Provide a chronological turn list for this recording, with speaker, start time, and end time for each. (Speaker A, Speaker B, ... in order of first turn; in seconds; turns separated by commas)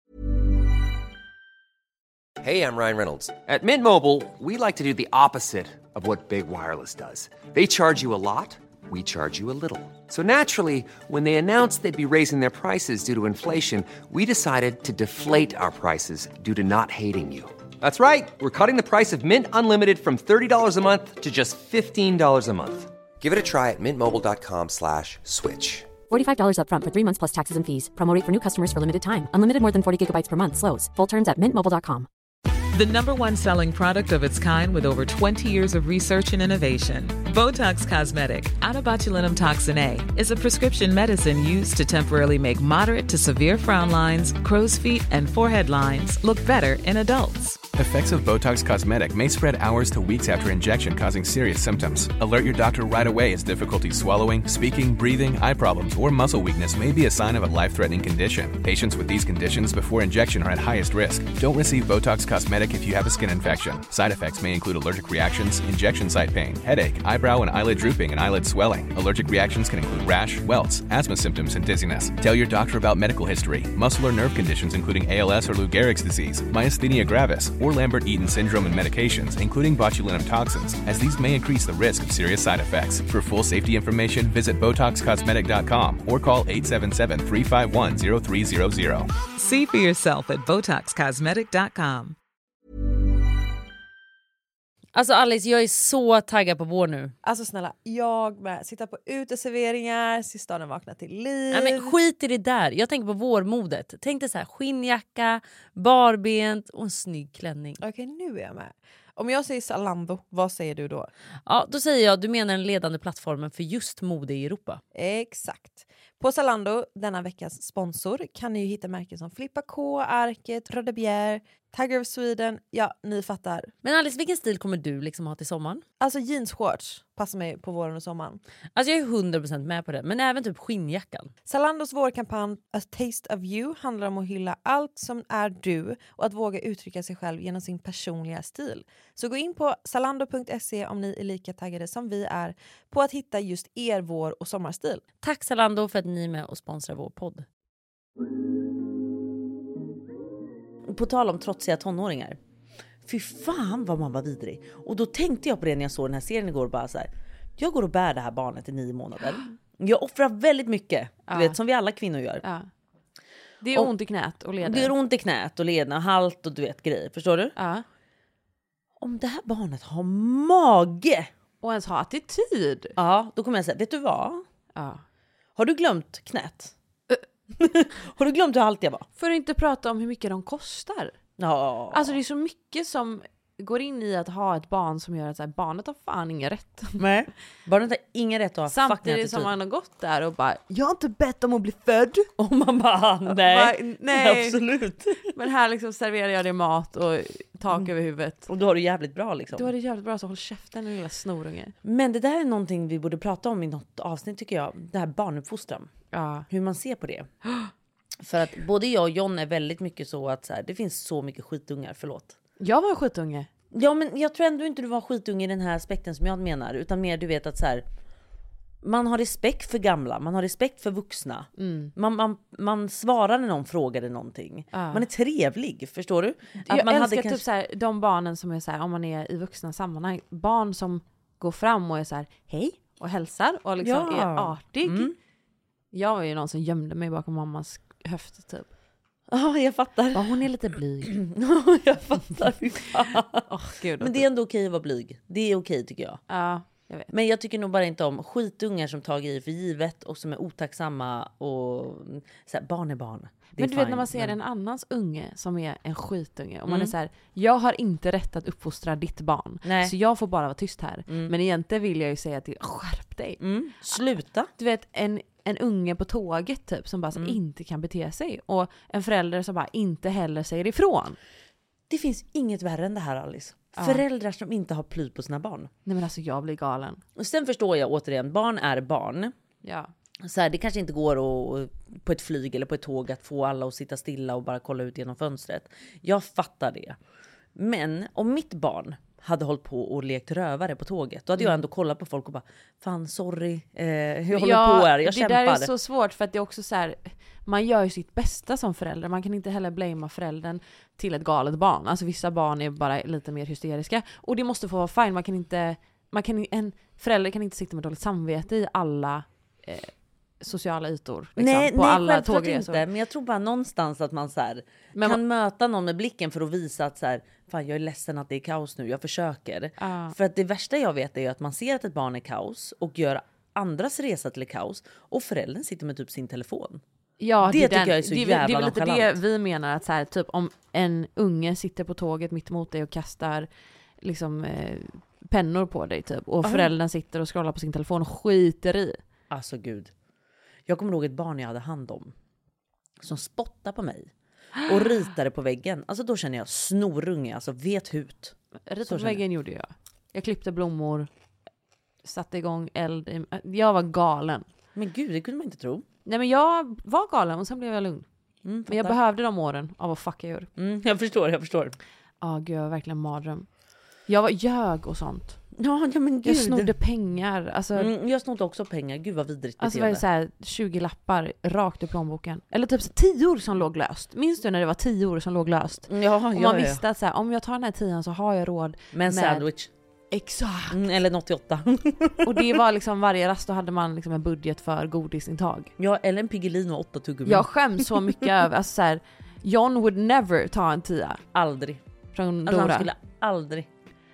Speaker A: 2.4-25.9, Speaker B: 26.1-32.1, Speaker C: 32.7-47.6, Speaker D: 47.8-89.1, Speaker C: 89.3-92.2, Speaker E: 94.9-97.1, Speaker F: 97.2-101.9, Speaker E: 101.5-107.8, Speaker F: 107.8-111.1, Speaker E: 111.5-114.8, Speaker F: 114.9-123.7, Speaker E: 123.8-125.8, Speaker F: 126.0-128.4, Speaker E: 128.7-131.3, Speaker F: 131.4-145.0, Speaker E: 145.2-147.4, Speaker E: 150.9-152.4, Speaker E: 153.0-162.4, Speaker G: 161.3-161.6, Speaker G: 162.4-162.7, Speaker G: 163.6-164.9, Speaker E: 164.6-167.5, Speaker G: 167.6-167.8, Speaker E: 169.0-171.3, Speaker G: 171.6-172.9, Speaker E: 173.0-174.4, Speaker G: 174.7-175.0, Speaker E: 175.6-176.7, Speaker E: 177.5-179.1, Speaker G: 179.2-181.2, Speaker E: 181.4-182.2, Speaker G: 181.9-187.0, Speaker E: 187.0-189.5, Speaker G: 188.7-192.3, Speaker E: 192.4-195.3, Speaker G: 193.3-194.6, Speaker G: 195.2-198.5, Speaker E: 198.5-199.7, Speaker G: 199.5-201.7, Speaker E: 201.8-205.9, Speaker G: 206.1-206.5, Speaker E: 206.5-207.3, Speaker E: 208.2-212.3, Speaker G: 212.6-213.5, Speaker E: 213.7-217.8, Speaker E: 218.8-227.4, Speaker G: 221.6-221.9, Speaker G: 224.7-225.1, Speaker G: 226.7-235.1, Speaker E: 233.8-235.2, Speaker G: 235.9-238.7, Speaker E: 239.3-240.5, Speaker G: 240.1-241.2, Speaker E: 241.0-243.5, Speaker G: 243.4-244.2, Speaker E: 244.0-246.2, Speaker G: 246.3-247.1, Speaker E: 247.1-254.3, Speaker G: 253.6-263.4, Speaker E: 256.7-256.9, Speaker E: 259.6-259.9, Speaker E: 261.1-261.3, Speaker E: 263.4-264.5, Speaker G: 264.6-271.2, Speaker E: 267.1-267.4, Speaker E: 271.9-275.7, Speaker G: 273.8-274.0, Speaker G: 275.9-277.0, Speaker E: 277.1-279.3, Speaker G: 279.6-279.9, Speaker E: 280.2-287.0, Speaker E: 287.5-295.7, Speaker G: 294.3-312.8, Speaker E: 311.4-326.8, Speaker G: 314.9-315.2, Speaker G: 319.8-320.1, Speaker G: 327.2-333.5, Speaker E: 327.4-329.2, Speaker G: 334.0-339.0, Speaker E: 336.4-336.7, Speaker E: 339.3-339.9, Speaker E: 340.7-342.1, Speaker E: 343.0-344.1, Speaker E: 344.6-349.2, Speaker G: 348.7-351.1, Speaker G: 352.0-354.5, Speaker E: 354.7-355.9, Speaker G: 356.0-358.1, Speaker E: 358.4-359.0, Speaker G: 358.7-360.5, Speaker E: 360.6-361.8, Speaker G: 362.2-363.5, Speaker G: 364.1-365.4, Speaker E: 365.5-366.7, Speaker G: 366.2-367.9, Speaker E: 367.7-370.0, Speaker G: 369.6-379.4, Speaker E: 375.9-376.8, Speaker E: 378.9-379.7, Speaker G: 380.1-380.8, Speaker E: 380.7-382.6, Speaker G: 382.2-385.7, Speaker E: 385.8-388.2, Speaker G: 387.2-391.2, Speaker E: 391.3-391.8, Speaker G: 392.1-392.9, Speaker E: 392.4-393.7